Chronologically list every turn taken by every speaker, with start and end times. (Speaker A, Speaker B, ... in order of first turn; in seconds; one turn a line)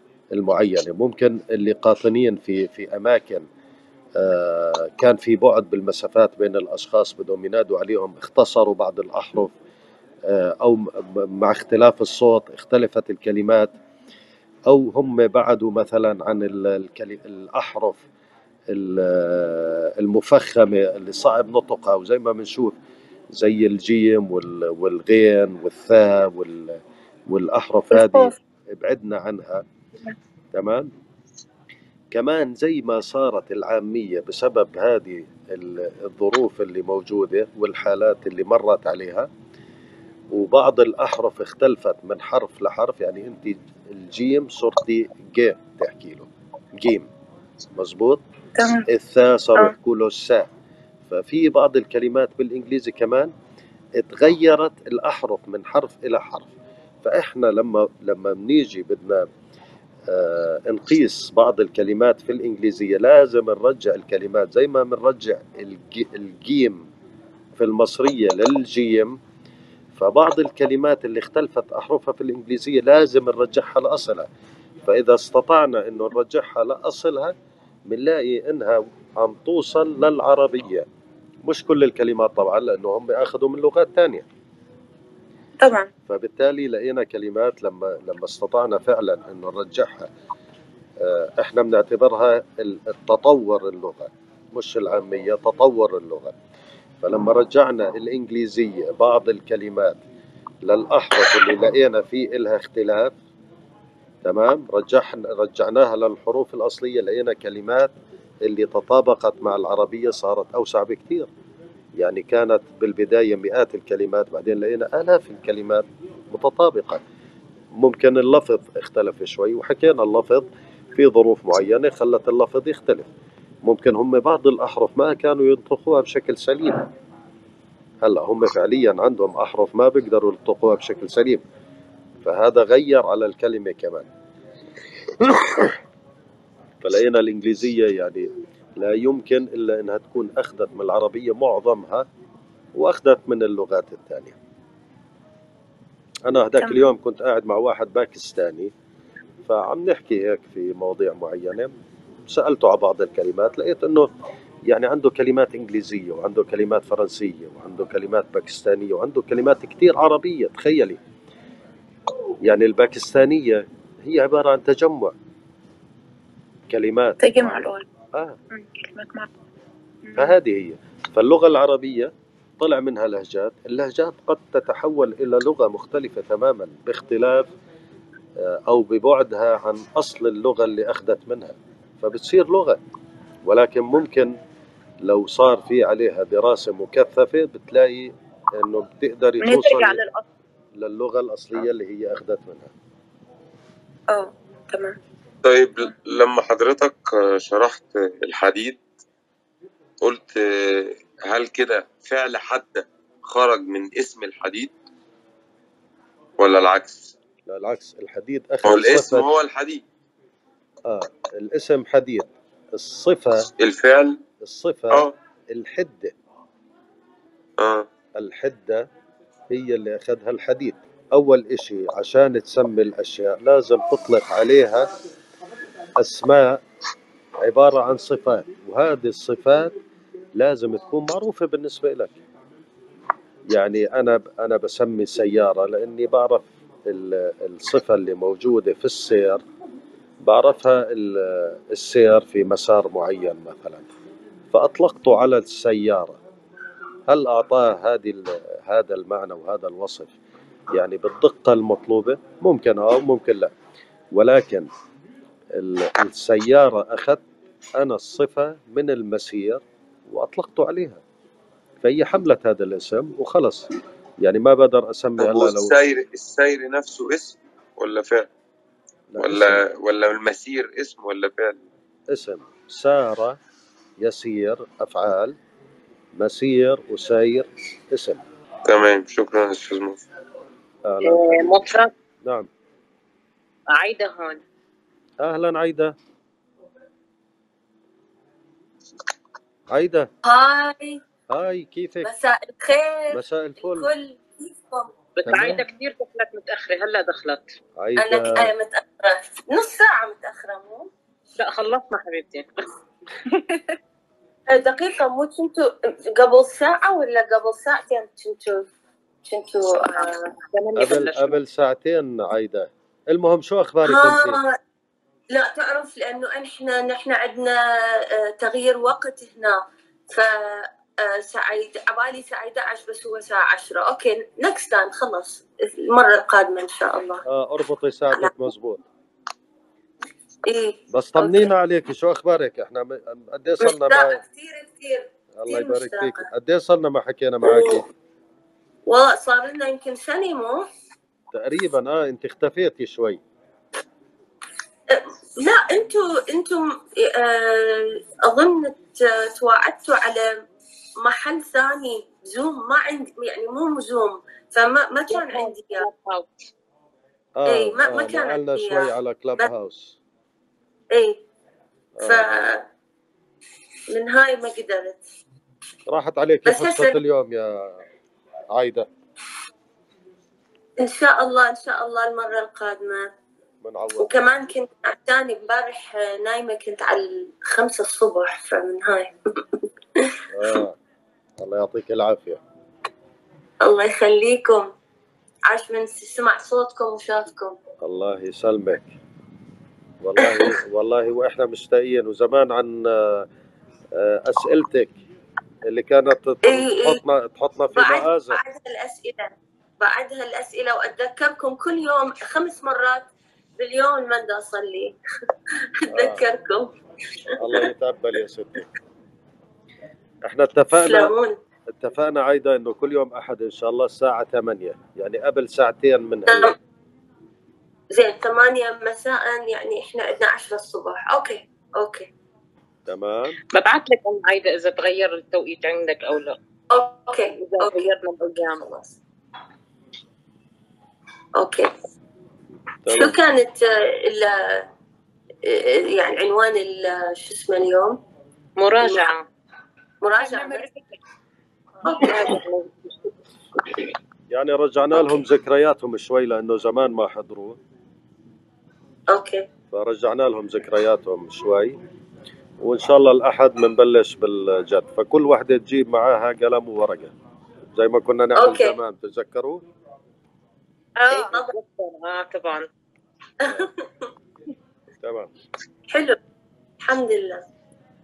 Speaker A: 0.3-3.5
Speaker A: 4.2-9.5
Speaker A: 10.3-13.7
Speaker A: 14.7-18.0
Speaker A: 18.7-22.7
Speaker A: 23.3-26.8
Speaker A: 27.3-29.6
Speaker B: 27.9-28.3
Speaker A: 30.5-30.9
Speaker A: 32.1-39.3
Speaker A: 40.3-47.1
Speaker A: 47.8-48.2
Speaker B: 48.6-48.8
Speaker A: 48.9-50.5
Speaker A: 51.1-53.3
Speaker A: 54.0-56.5
Speaker A: 57.0-59.3
Speaker A: 60.1-66.8
Speaker A: 67.6-69.2
Speaker A: 70.0-74.3
Speaker A: 74.9-77.3
Speaker A: 77.9-80.8
Speaker A: 81.5-84.2
Speaker B: 85.6-85.9
Speaker A: 86.1-90.1
Speaker A: 91.0-96.3
Speaker A: 97.0-100.0
Speaker A: 100.6-103.2
Speaker A: 104.2-107.9
Speaker A: 108.4-111.3
Speaker A: 112.0-117.0
Speaker A: 117.8-123.1
Speaker A: 123.7-126.8
Speaker A: 128.0-131.4
Speaker A: 132.2-134.1
Speaker A: 136.8-142.1
Speaker A: 142.8-144.3
Speaker A: 146.3-148.7
Speaker A: 149.5-151.7
Speaker A: 152.3-154.1
Speaker A: 154.7-161.0
Speaker A: 162.4-165.1
Speaker A: 166.7-168.4
Speaker B: 167.2-167.8
Speaker B: 168.5-169.3
Speaker B: 170.1-170.3
Speaker A: 170.2-177.5
Speaker A: 178.4-182.8
Speaker A: 183.4-184.3
Speaker A: 185.0-190.0
Speaker B: 189.4-190.2
Speaker A: 190.8-192.7
Speaker B: 194.1-195.0
Speaker C: 195.4-198.8
Speaker C: 200.0-204.7
Speaker C: 206.4-207.1
Speaker A: 207.5-209.3
Speaker C: 208.6-209.8
Speaker A: 210.9-213.5
Speaker C: 213.6-214.2
Speaker A: 214.4-216.1
Speaker C: 217.6-217.9
Speaker A: 218.2-218.8
Speaker A: 219.5-224.9
Speaker A: 226.0-226.6
Speaker A: 227.4-229.7
Speaker A: 230.4-232.1
Speaker A: 233.5-239.4
Speaker A: 240.2-243.9
Speaker A: 244.5-246.2
Speaker A: 247.1-250.1
Speaker A: 250.7-253.5
Speaker A: 254.1-254.7
Speaker A: 255.5-257.2
Speaker A: 257.8-261.0
Speaker A: 261.8-263.7
Speaker A: 264.2-265.7
Speaker C: 265.2-268.3
Speaker A: 269.1-269.6
Speaker C: 269.2-271.6
Speaker A: 272.1-273.4
Speaker A: 274.0-275.4
Speaker A: 276.2-278.2
Speaker C: 278.6-280.0
Speaker A: 280.9-281.6
Speaker D: 281.0-281.9
Speaker D: 283.7-284.4
Speaker A: 285.2-285.9
Speaker A: 289.7-290.1
Speaker E: 290.2-291.0
Speaker A: 291.3-292.1
Speaker E: 292.0-294.9
Speaker A: 293.1-293.9
Speaker D: 295.1-297.5
Speaker A: 295.2-295.6
Speaker A: 297.8-298.5
Speaker E: 297.9-300.9
Speaker D: 301.4-302.5
Speaker E: 304.5-308.7
Speaker E: 309.2-310.3
Speaker D: 310.5-311.4
Speaker A: 310.8-314.4
Speaker E: 313.8-314.6
Speaker E: 315.3-327.2
Speaker A: 327.2-328.8
Speaker E: 328.1-328.5
Speaker E: 330.5-331.5
Speaker A: 330.9-334.2
Speaker E: 333.6-336.2
Speaker A: 335.4-337.9
Speaker E: 337.4-337.8
Speaker E: 338.9-340.7
Speaker A: 341.3-343.2
Speaker E: 344.9-350.4
Speaker E: 351.0-355.9
Speaker D: 355.1-356.3
Speaker A: 357.4-360.0
Speaker E: 357.5-359.5
Speaker E: 360.9-361.2
Speaker A: 362.0-362.3
Speaker E: 362.0-362.6
Speaker E: 363.9-365.0
Speaker A: 365.9-367.8
Speaker E: 366.4-367.0
Speaker A: 368.5-368.9
Speaker E: 370.8-373.1
Speaker A: 373.6-374.2
Speaker E: 374.0-379.1
Speaker A: 380.3-380.8
Speaker A: 381.4-382.4
Speaker E: 383.6-384.7
Speaker E: 385.5-387.6
Speaker A: 387.8-388.9
Speaker A: 390.0-393.2
Speaker A: 394.0-394.9
Speaker A: 395.7-398.4
Speaker E: 396.4-397.0
Speaker E: 397.7-403.1
Speaker E: 403.6-405.0
Speaker E: 405.9-406.7
Speaker A: 405.9-406.2
Speaker A: 407.4-408.7
Speaker A: 410.3-411.1
Speaker E: 410.7-411.4
Speaker A: 411.7-416.5
Speaker E: 416.3-416.5
Speaker E: 417.9-422.1
Speaker A: 422.9-423.4
Speaker D: 423.5-426.4
Speaker E: 426.7-428.9
Speaker D: 427.4-428.6
Speaker E: 431.4-431.7
Speaker A: 432.8-433.2
Speaker E: 432.9-434.6
Speaker E: 435.4-438.0
Speaker D: 438.6-439.2
Speaker E: 438.8-439.1
Speaker E: 440.0-440.7
Speaker D: 440.2-440.7
Speaker E: 441.8-442.4
Speaker D: 442.0-442.9
Speaker A: 444.3-447.6
Speaker E: 449.1-449.4
Speaker A: 449.7-451.8
Speaker A: 452.6-457.1
Speaker A: 457.8-459.6
Speaker E: 458.3-458.8
Speaker D: 461.0-462.6
Speaker E: 461.1-461.5
Speaker A: 463.4-463.7
Speaker E: 463.4-463.9
Speaker A: 465.0-465.3
Speaker E: 465.9-466.2
Speaker E: 466.8-467.4